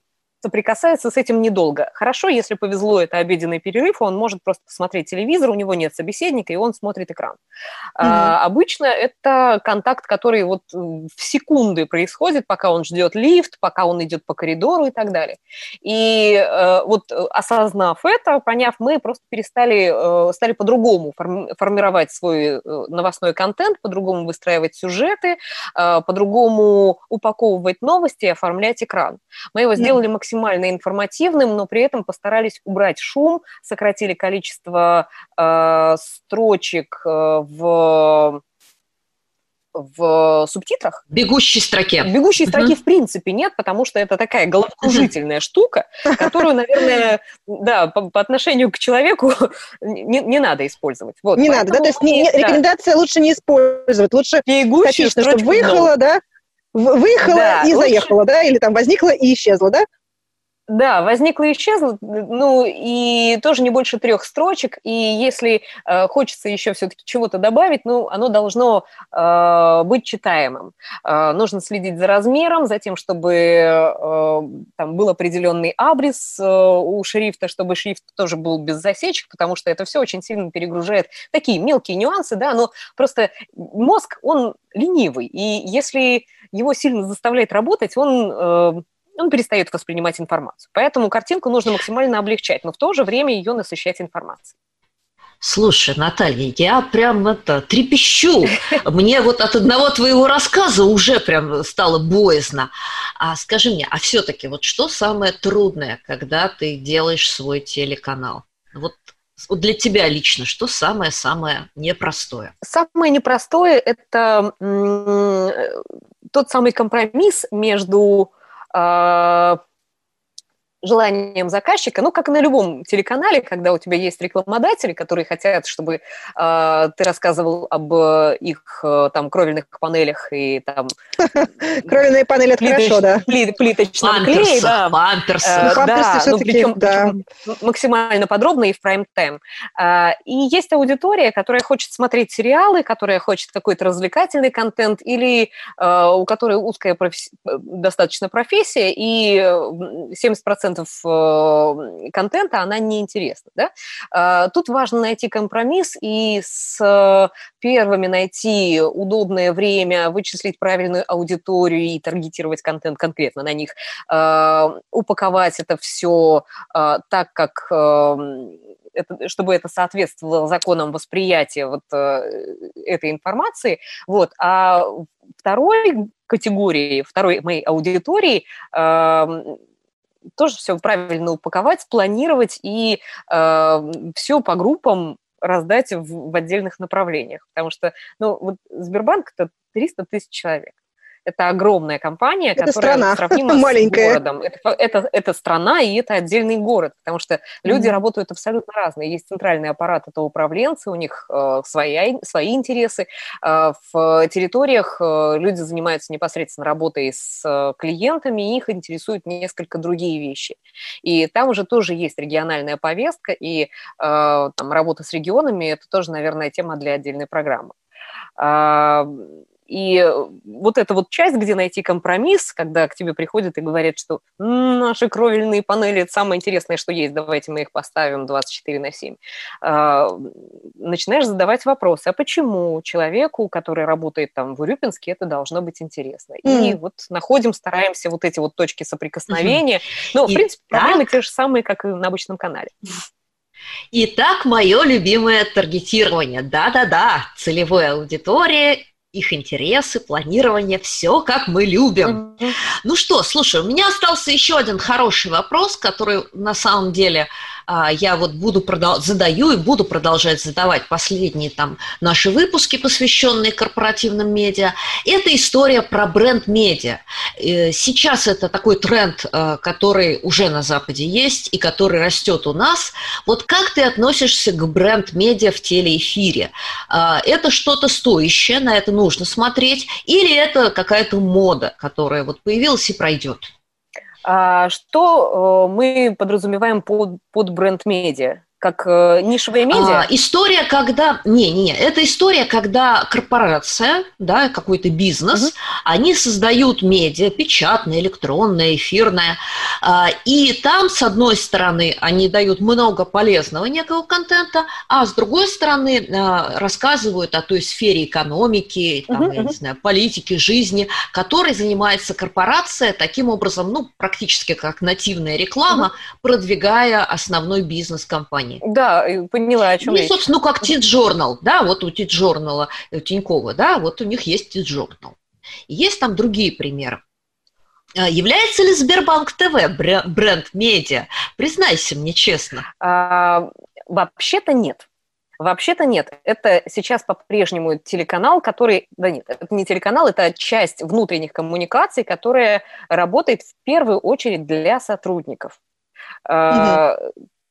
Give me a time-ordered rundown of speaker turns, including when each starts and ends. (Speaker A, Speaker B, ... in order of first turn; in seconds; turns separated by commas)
Speaker A: 0.4-7.4, Speaker A: 8.0-38.4, Speaker B: 8.0-8.3, Speaker A: 39.8-41.0, Speaker C: 41.1-42.7, Speaker A: 42.0-52.6, Speaker B: 51.4-56.2, Speaker A: 54.5-55.9, Speaker B: 56.7-59.9, Speaker A: 57.2-58.1, Speaker A: 60.7-94.5, Speaker C: 95.4-112.5, Speaker A: 112.6-115.8, Speaker A: 116.3-119.6, Speaker A: 120.8-130.9, Speaker B: 131.3-133.2, Speaker A: 132.6-179.6, Speaker C: 134.0-135.8, Speaker B: 135.7-137.2, Speaker A: 180.4-190.7, Speaker A: 191.3-217.7, Speaker B: 192.6-194.2, Speaker B: 197.7-197.9, Speaker A: 218.4-242.7, Speaker B: 236.4-236.8, Speaker C: 239.3-239.6, Speaker C: 240.3-241.1, Speaker C: 243.9-252.2, Speaker A: 252.1-252.6, Speaker C: 252.8-283.5, Speaker A: 284.2-290.1, Speaker C: 289.7-318.6, Speaker A: 309.2-309.5, Speaker A: 318.6-320.7, Speaker C: 319.8-325.1, Speaker C: 325.7-327.0, Speaker C: 328.0-332.7, Speaker A: 332.8-334.9, Speaker A: 335.4-345.6, Speaker A: 346.3-347.1, Speaker B: 346.5-346.8